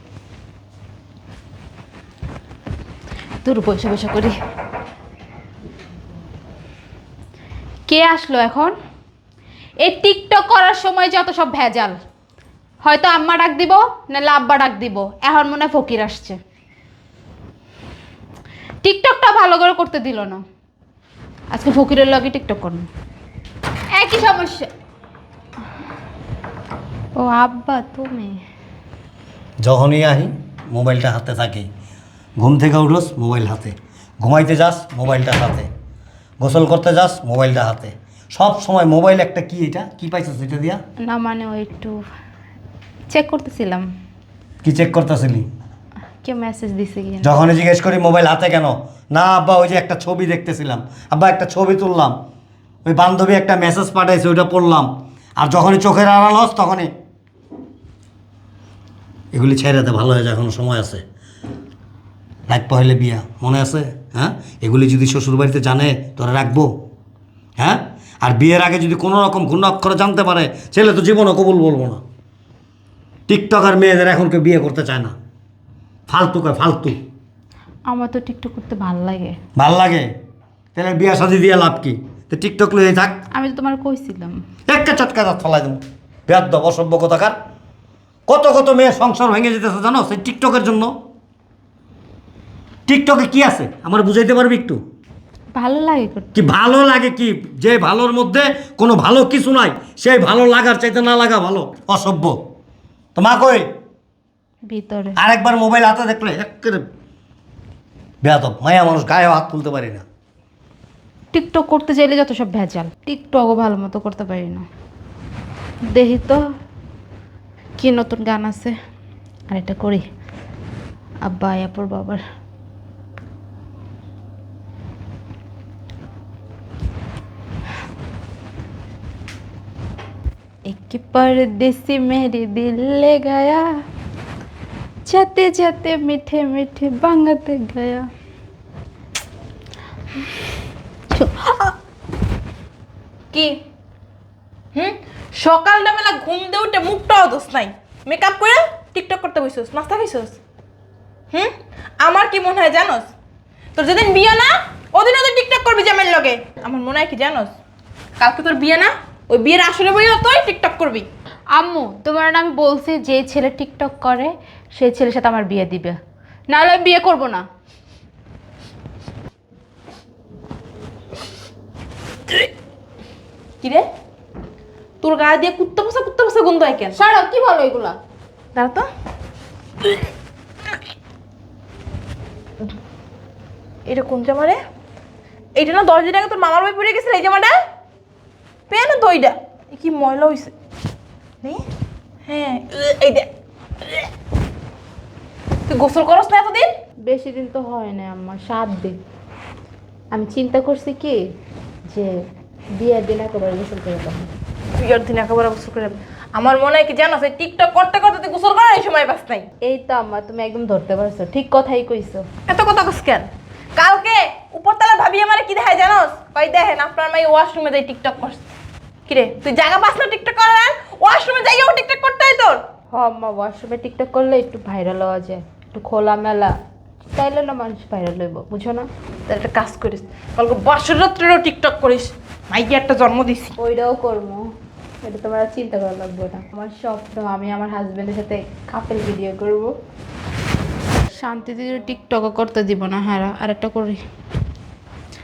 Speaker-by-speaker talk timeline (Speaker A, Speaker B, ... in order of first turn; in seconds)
Speaker A: 3.4-4.3, 7.9-8.7, 9.8-12.0, 12.8-16.4, 18.8-20.4, 21.5-22.9, 23.9-24.7, 27.2-28.4, 41.0-42.0, 43.1-43.9, 46.2-47.4, 77.9-79.4, 83.3-84.4, 95.5-96.3, 104.7-105.2, 111.3-114.7, 115.9-116.4, 117.8-118.8, 119.5-120.0, 121.2-122.2, 130.7-133.7, 135.1-138.1, 141.1-141.7, 161.5-166.0, 166.5-167.4, 176.9-178.0, 197.0-199.0, 200.1-201.2, 202.8-204.3, 209.6-212.3, 222.9-226.5, 227.1-228.9, 233.6-234.5, 235.0-239.7, 241.1-244.0
Speaker B: 29.6-31.7, 32.4-35.7, 36.4-40.8, 44.6-45.5, 47.2-52.2, 52.9-56.9, 59.3-61.0, 62.5-66.7, 67.6-72.0, 73.3-75.2, 76.1-77.0, 79.6-80.1, 80.8-83.2, 84.7-87.4, 88.3-90.9, 92.9-94.8, 96.3-102.4, 103.2-103.7, 105.2-106.8, 108.2-110.0
Speaker C: 144.8-150.4, 151.3-153.1, 153.8-157.5, 158.2-161.1, 175.0-177.0, 178.6-178.9, 183.9-184.6, 185.6-187.6, 188.7-190.5, 192.3-193.3, 193.8-194.1, 195.7-196.7, 204.8-209.5, 212.5-218.4, 219.1-222.6, 229.3-233.6